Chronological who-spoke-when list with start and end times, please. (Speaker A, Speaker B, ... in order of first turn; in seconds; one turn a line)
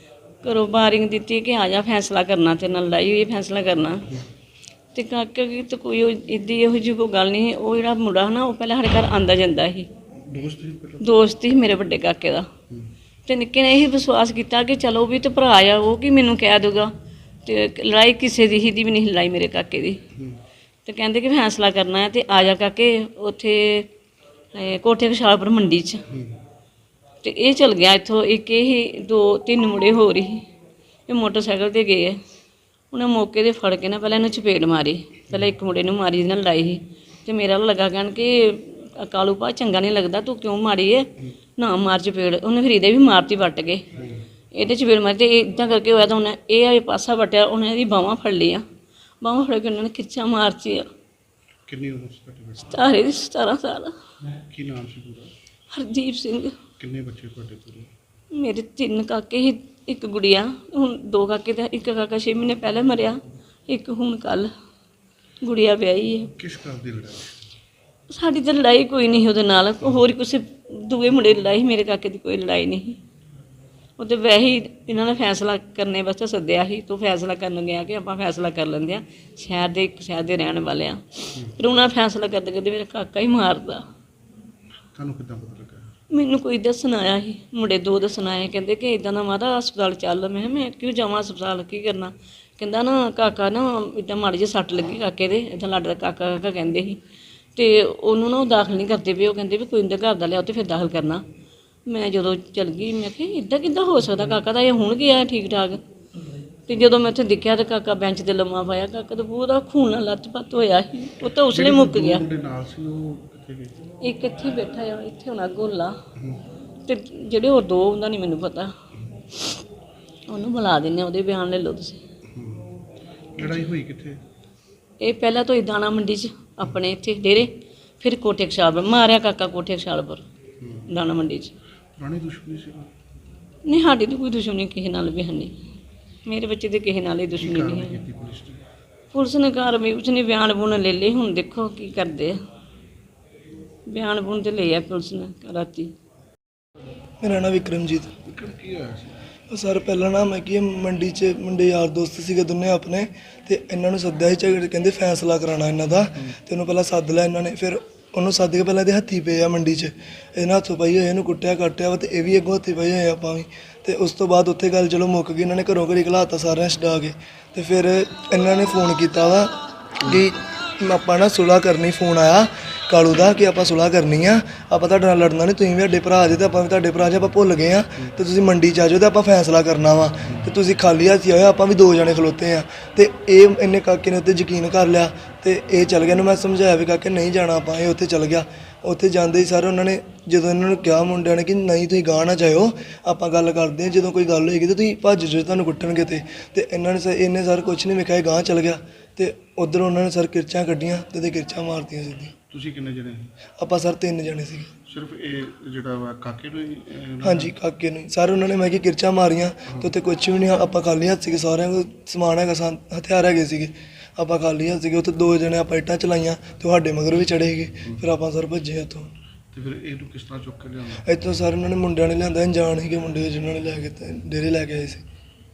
Speaker A: 0.4-4.1
Speaker A: 4.9-9.9
Speaker B: 10.2-11.1
Speaker A: 11.0-12.5
Speaker A: 13.3-16.9
Speaker A: 17.4-20.0
Speaker B: 20.1-20.4
Speaker A: 20.9-23.9
Speaker A: 24.5-26.0
Speaker B: 26.1-26.4
Speaker A: 27.2-30.4
Speaker A: 31.1-32.2
Speaker A: 32.9-43.8
Speaker B: 44.0-44.2
Speaker A: 44.5-48.6
Speaker A: 49.2-50.9
Speaker B: 51.7-52.8
Speaker A: 52.7-53.9
Speaker B: 54.5-55.3
Speaker A: 55.7-56.6
Speaker B: 56.8-57.9
Speaker A: 58.3-64.5
Speaker A: 65.4-66.3
Speaker B: 66.4-67.3
Speaker A: 68.1-73.0
Speaker A: 74.0-83.8
Speaker B: 85.0-85.9
Speaker A: 86.1-97.0
Speaker A: 97.5-101.2
Speaker A: 101.9-105.8
Speaker A: 106.7-112.2
Speaker B: 111.3-113.8
Speaker A: 114.0-116.0
Speaker B: 116.2-116.4
Speaker A: 116.8-118.7
Speaker A: 120.3-122.0
Speaker B: 122.3-122.7
Speaker B: 123.4-124.2
Speaker A: 125.0-130.2
Speaker B: 130.6-130.9
Speaker A: 130.9-131.6
Speaker B: 132.0-132.9
Speaker A: 133.7-135.6
Speaker A: 136.2-138.0
Speaker B: 137.4-138.6
Speaker A: 139.1-142.4
Speaker A: 143.9-145.9
Speaker C: 147.2-148.1
Speaker B: 148.2-149.1
Speaker C: 149.5-202.3
Speaker B: 180.2-180.5
Speaker B: 202.5-203.3
Speaker C: 203.6-204.7
Speaker B: 204.9-207.5
Speaker C: 207.2-219.1
Speaker B: 219.5-221.1
Speaker C: 221.0-225.0